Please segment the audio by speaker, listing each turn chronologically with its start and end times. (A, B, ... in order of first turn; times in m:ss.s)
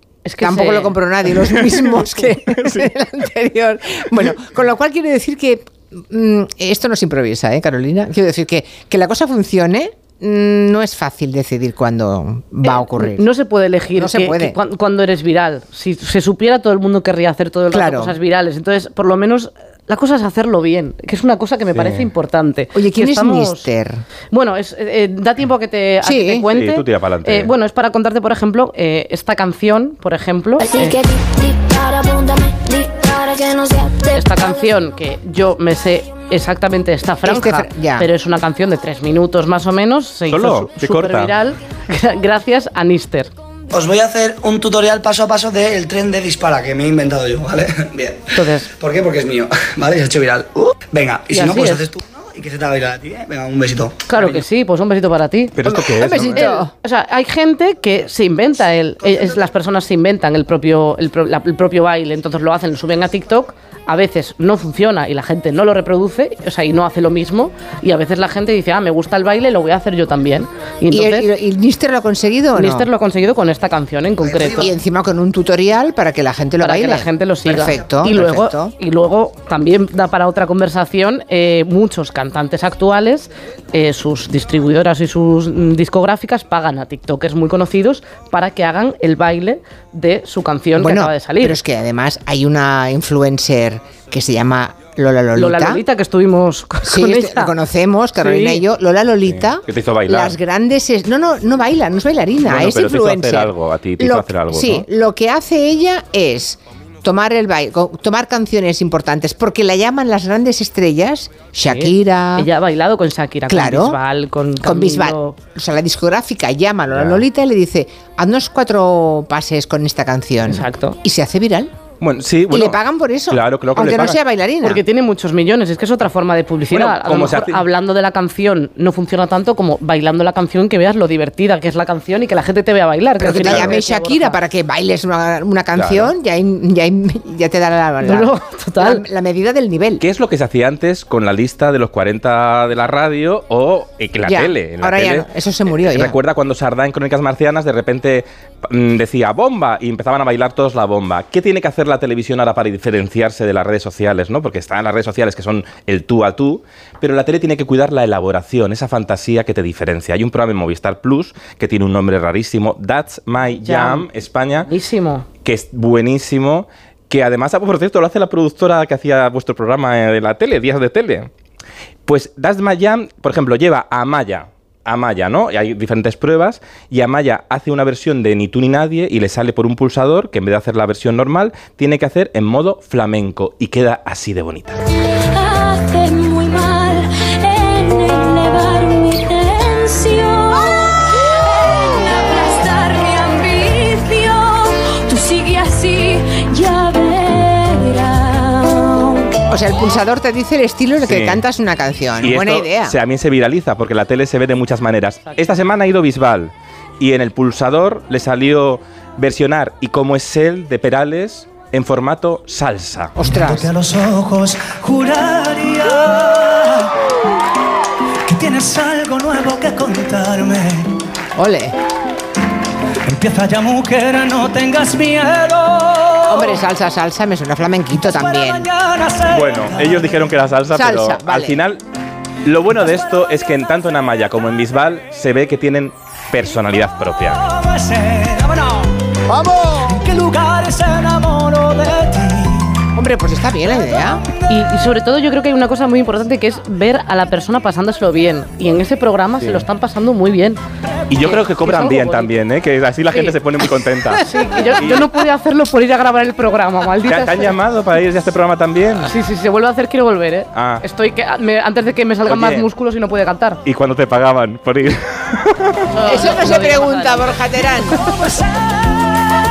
0:00.2-0:01.0 A
0:00.4-0:13.3 B
0:01.4-0:02.9 C
0:12.6-0:23.7 A
0:13.9-0:14.6 B
0:17.7-0:18.2 B
0:21.7-0:22.1 C
0:22.7-0:24.0 B
0:24.3-0:31.0 A
0:26.0-0:26.4 B
0:26.5-0:27.5 C
0:30.6-0:34.7 D
0:34.1-0:43.3 A
0:37.2-0:38.1 B
0:40.3-0:41.3 C
0:43.7-0:54.4 E
0:48.3-0:48.7 A
0:51.3-0:51.8 A
0:54.1-0:55.5 A
0:55.6-0:56.5 C
0:55.6-0:56.7 B
0:56.3-1:11.3 A
1:10.9-1:12.9 B
1:12.5-1:14.7 A
1:14.4-1:18.7 B
1:16.6-1:31.6 A
1:30.8-1:35.8 B
1:35.3-1:37.5 A
1:36.8-1:52.5 B
1:38.2-1:38.6 A
1:39.3-1:40.4 C
1:42.4-1:44.8 C
1:51.6-1:55.4 A
1:53.5-1:54.0 B
1:54.6-2:01.7 B
1:56.9-1:57.2 C
2:00.5-2:01.0 A
2:02.0-2:04.2 C
2:02.5-2:04.8 B
2:04.6-2:14.4 A
2:06.7-2:07.6 C
2:13.2-2:20.0 B
2:13.4-2:13.8 C
2:15.7-2:16.1 C
2:18.0-2:19.0 A
2:20.0-2:25.3 C
2:24.2-2:26.2 B
2:25.8-2:44.7 C
2:43.6-2:44.0 A
2:44.6-2:45.2 A
2:45.4-2:51.3 C
2:52.1-3:04.8 C
3:05.2-3:19.3 D
3:19.5-3:23.0 B
3:21.0-3:21.4 C
3:22.2-3:33.2 C
3:33.2-3:33.8 B
3:34.1-3:36.2 E
3:38.3-3:40.8 E
3:41.3-3:41.8 B
3:43.1-3:46.2 E
3:46.2-3:48.7 B
3:48.6-3:49.4 E
3:49.2-3:51.8 C
3:50.7-3:51.6 B
3:52.4-3:57.4 C
3:57.7-4:02.3 E
4:02.9-4:04.2 B
4:04.5-4:10.6 A
4:09.4-4:09.6 C
4:11.1-4:15.2 C
4:11.2-4:12.3 A
4:14.2-4:17.5 A
4:17.0-4:19.1 C
4:19.0-4:23.6 A
4:20.5-4:20.8 C
4:22.2-4:22.7 C
4:23.6-4:25.9 C
4:25.9-4:27.4 A
4:26.0-4:28.2 B